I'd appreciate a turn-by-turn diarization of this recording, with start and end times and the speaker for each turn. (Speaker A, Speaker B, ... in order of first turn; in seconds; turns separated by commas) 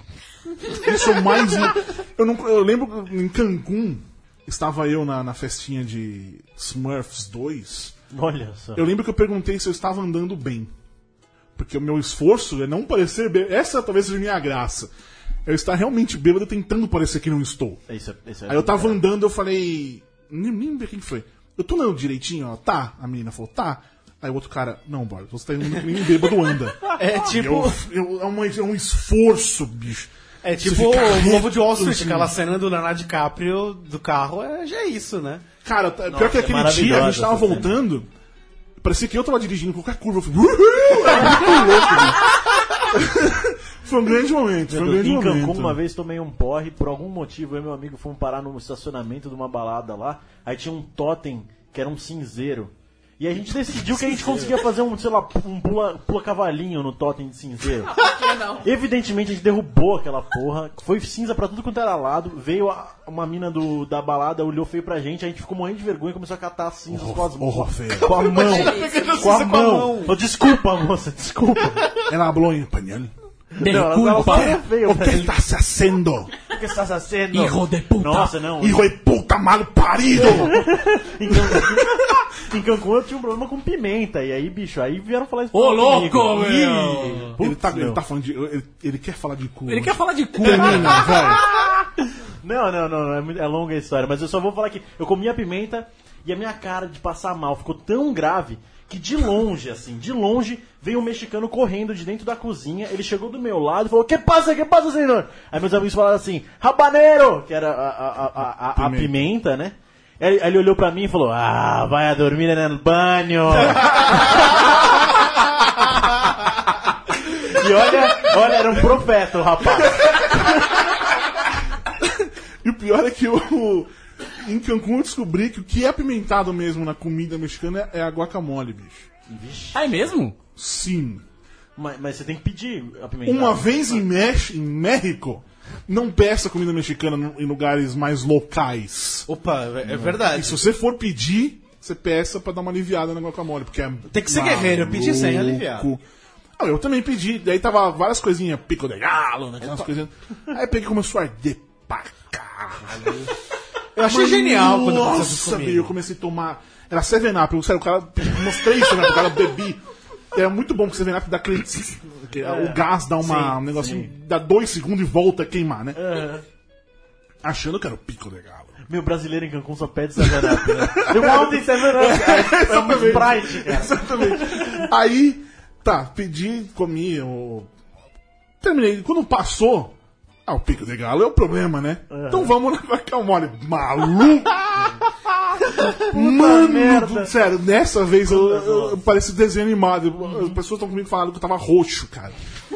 Speaker A: 0.7-8.0, Speaker B: 8.1-8.8, Speaker A: 8.8-10.7, Speaker A: 11.6-14.9, Speaker A: 15.4-17.8, Speaker B: 17.9-19.0, Speaker A: 18.5-32.3, Speaker C: 27.0-27.8, Speaker C: 30.4-35.5, Speaker A: 35.6-38.1, Speaker B: 36.1-37.8, Speaker A: 38.8-42.2, Speaker B: 41.0-42.0, Speaker A: 42.9-45.8, Speaker B: 44.7-58.0, Speaker D: 57.6-58.7, Speaker B: 58.6-72.0, Speaker A: 66.9-68.4, Speaker D: 68.0-69.2, Speaker C: 68.1-70.2, Speaker A: 72.1-73.1, Speaker E: 73.6-74.6, Speaker B: 73.6-75.4, Speaker A: 74.1-76.3, Speaker B: 76.5-78.9, Speaker E: 77.3-78.3, Speaker A: 78.6-80.7, Speaker B: 80.1-88.0, Speaker A: 81.3-82.2, Speaker E: 85.5-87.3, Speaker C: 87.0-87.3, Speaker A: 87.4-91.5, Speaker E: 89.7-91.2, Speaker B: 90.5-115.3, Speaker A: 108.7-109.3, Speaker C: 113.6-114.4, Speaker A: 113.9-114.6, Speaker B: 117.2-120.5, Speaker A: 120.0-120.9, Speaker A: 122.0-129.1, Speaker B: 129.3-130.0, Speaker E: 129.7-130.3, Speaker A: 130.6-131.2, Speaker B: 131.8-134.0, Speaker A: 133.2-139.3, Speaker C: 139.3-140.6, Speaker B: 139.8-140.2, Speaker A: 140.1-146.0, Speaker C: 144.1-145.9, Speaker A: 146.6-153.3, Speaker C: 153.9-155.9, Speaker A: 154.0-159.8, Speaker A: 160.3-166.0, Speaker B: 162.4-162.8, Speaker C: 163.2-163.6, Speaker B: 163.3-164.1, Speaker B: 165.9-166.4, Speaker A: 167.4-168.8, Speaker B: 168.9-174.9, Speaker A: 170.2-177.7, Speaker A: 178.6-179.9, Speaker A: 180.5-185.0, Speaker B: 182.1-182.6, Speaker A: 185.7-192.4, Speaker B: 185.7-187.3, Speaker B: 188.2-189.0